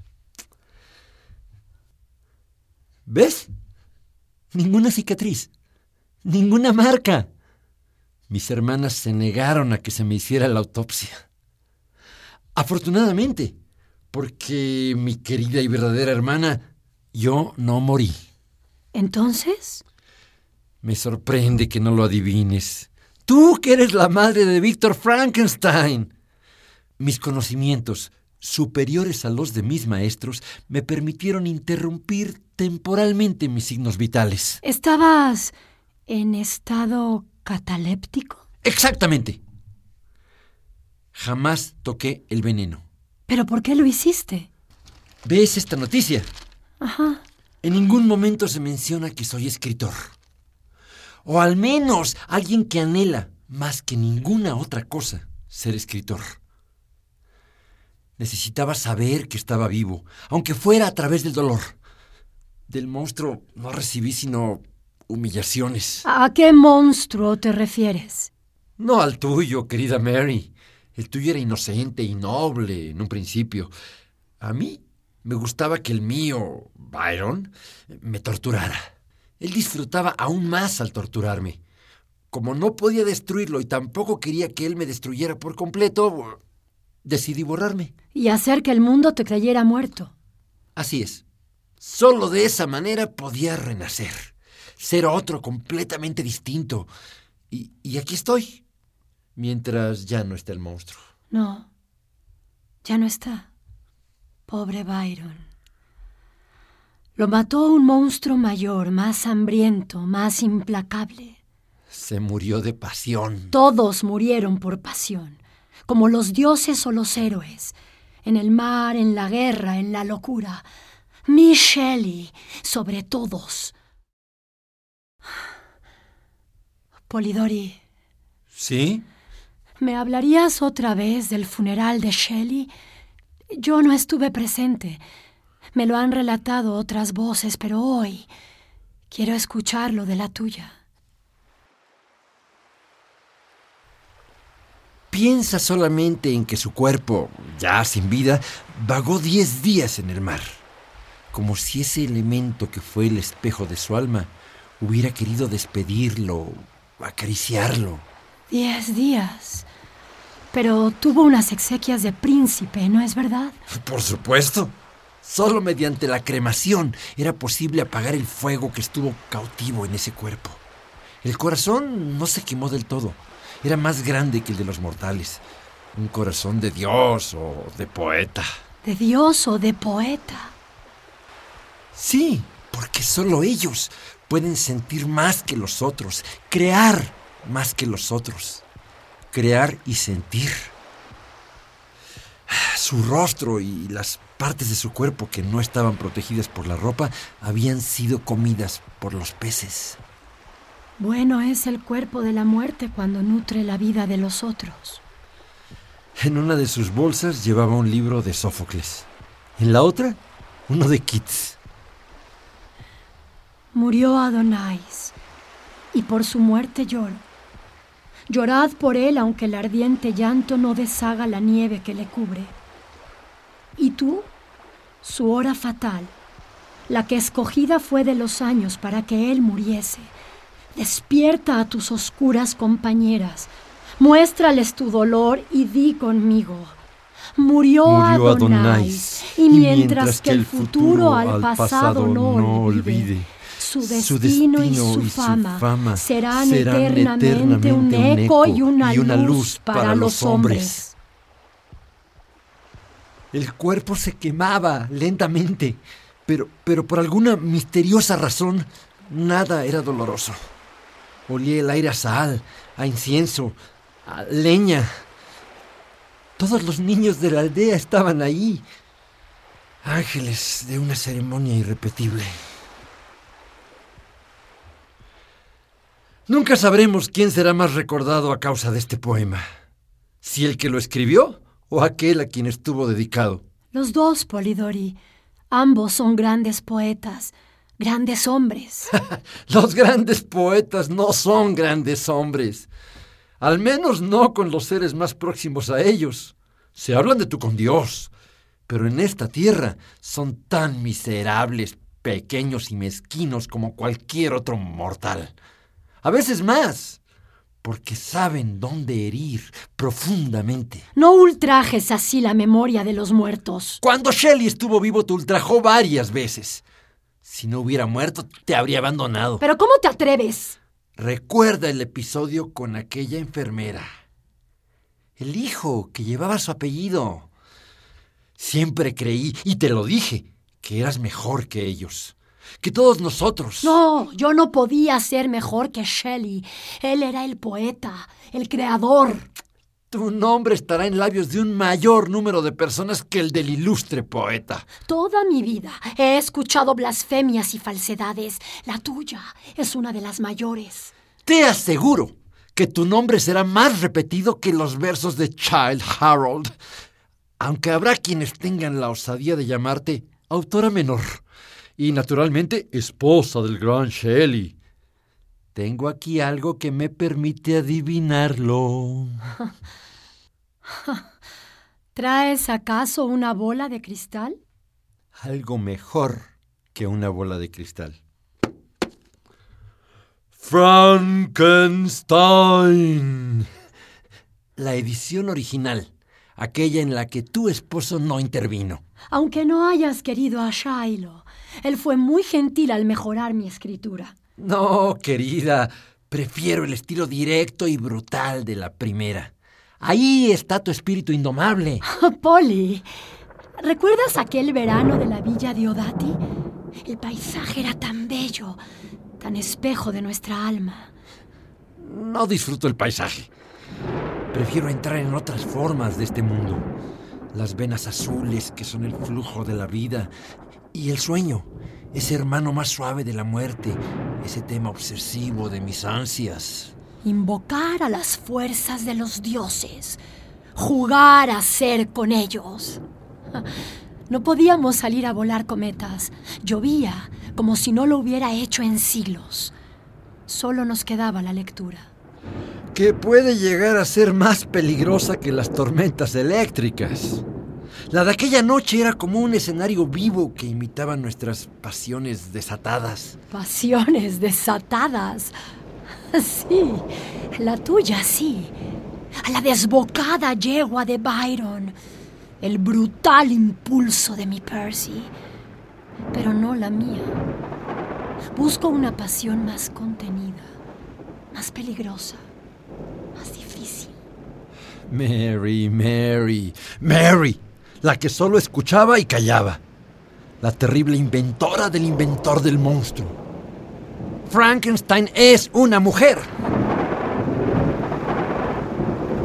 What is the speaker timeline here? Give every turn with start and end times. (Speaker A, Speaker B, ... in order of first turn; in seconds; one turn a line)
Speaker A: 3.1-3.5
Speaker A: 4.5-5.5
Speaker A: 6.2-7.3
Speaker A: 8.3-11.2
Speaker A: 12.5-13.5
Speaker A: 14.1-16.6
Speaker A: 17.1-18.1
Speaker B: 18.9-19.8
Speaker A: 20.8-26.1
Speaker A: 27.0-34.6
Speaker B: 34.6-35.5
Speaker B: 36.1-38.4
Speaker A: 38.6-39.4
Speaker A: 41.1-42.8
Speaker B: 43.3-44.5
Speaker A: 45.2-46.3
Speaker B: 46.8-47.2
Speaker A: 47.6-50.1
Speaker A: 51.2-56.4
Speaker A: 58.2-61.7
Speaker A: 62.7-66.0
Speaker B: 66.0-68.3
Speaker A: 68.8-73.7
Speaker A: 74.4-78.8
Speaker A: 79.4-81.6
Speaker A: 82.3-86.4
Speaker A: 87.0-87.9
Speaker B: 88.1-90.1
Speaker A: 90.8-91.2
Speaker A: 91.8-96.9
Speaker A: 97.5-98.6
Speaker A: 99.3-101.0
Speaker B: 101.3-101.7
Speaker B: 102.8-103.5
Speaker B: 104.5-105.5
Speaker B: 107.2-111.4
Speaker A: 111.9-113.5
Speaker B: 113.5-120.6
Speaker B: 121.3-123.7
Speaker B: 127.1-127.8
Speaker A: 128.5-129.0
Speaker B: 129.8-132.7
Speaker B: 133.5-135.0
Speaker B: 135.7-138.3
Speaker B: 139.1-140.7
Speaker A: 145.1-150.6
Speaker A: 151.3-158.0
Speaker B: 158.5-159.7
Speaker B: 160.5-163.6
Speaker A: 163.7-170.6
Speaker A: 171.2-175.4
Speaker A: 175.9-178.4
Speaker B: 178.8-180.5
Speaker A: 181.9-188.6
Speaker A: 189.3-190.7
Speaker A: 192.5-200.0
Speaker B: 201.0-205.0
Speaker A: 206.2-211.6
Speaker B: 213.7-215.1
Speaker B: 215.9-217.2
Speaker B: 218.3-222.5
Speaker B: 223.8-224.3
Speaker B: 225.0-226.1
Speaker B: 226.9-230.1
Speaker B: 230.7-236.8
Speaker B: 237.3-250.9
Speaker A: 237.8-243.3
Speaker A: 243.8-250.8
Speaker A: 253.3-260.4
Speaker A: 261.3-264.9
Speaker A: 266.4-268.6
Speaker A: 269.8-272.3
Speaker A: 276.3-279.4
Speaker A: 280.2-283.4
Speaker B: 283.7-285.0
Speaker B: 285.5-288.9
Speaker A: 288.9-292.7
Speaker A: 293.4-298.1
Speaker A: 298.7-305.3
Speaker A: 306.0-307.0
Speaker A: 307.6-310.9
Speaker B: 310.9-313.8
Speaker A: 313.8-316.6
Speaker A: 317.2-319.4
Speaker B: 319.4-320.6
Speaker A: 321.0-323.9
Speaker A: 325.2-327.3
Speaker A: 328.4-333.8
Speaker B: 333.6-339.3
Speaker A: 339.9-344.6
Speaker B: 344.9-350.9
Speaker A: 351.2-356.5
Speaker A: 357.4-361.2
Speaker A: 361.8-364.5
Speaker A: 365.5-369.3
Speaker B: 370.8-371.0
Speaker B: 371.9-374.4
Speaker A: 375.2-378.0
Speaker A: 380.4-383.5
Speaker A: 384.6-388.8
Speaker B: 389.1-394.1
Speaker A: 394.4-401.8
Speaker B: 401.8-402.9
Speaker B: 403.6-406.2
Speaker B: 406.8-408.6
Speaker B: 409.2-410.9
Speaker A: 411.8-413.3
Speaker A: 414.3-416.7
Speaker A: 417.3-420.1
Speaker A: 420.7-426.7
Speaker B: 427.0-430.0
Speaker B: 430.5-432.8
Speaker B: 434.1-439.5
Speaker B: 440.3-441.9
Speaker A: 442.7-447.2
Speaker A: 447.9-453.1
Speaker B: 453.3-455.3
Speaker B: 456.1-458.5
Speaker B: 459.2-461.7
Speaker B: 462.4-465.1
Speaker B: 466.1-467.1
Speaker B: 468.3-470.5
Speaker B: 471.3-472.2
Speaker B: 473.1-473.9
Speaker A: 474.9-479.6
Speaker A: 480.4-483.2
Speaker A: 484.3-486.3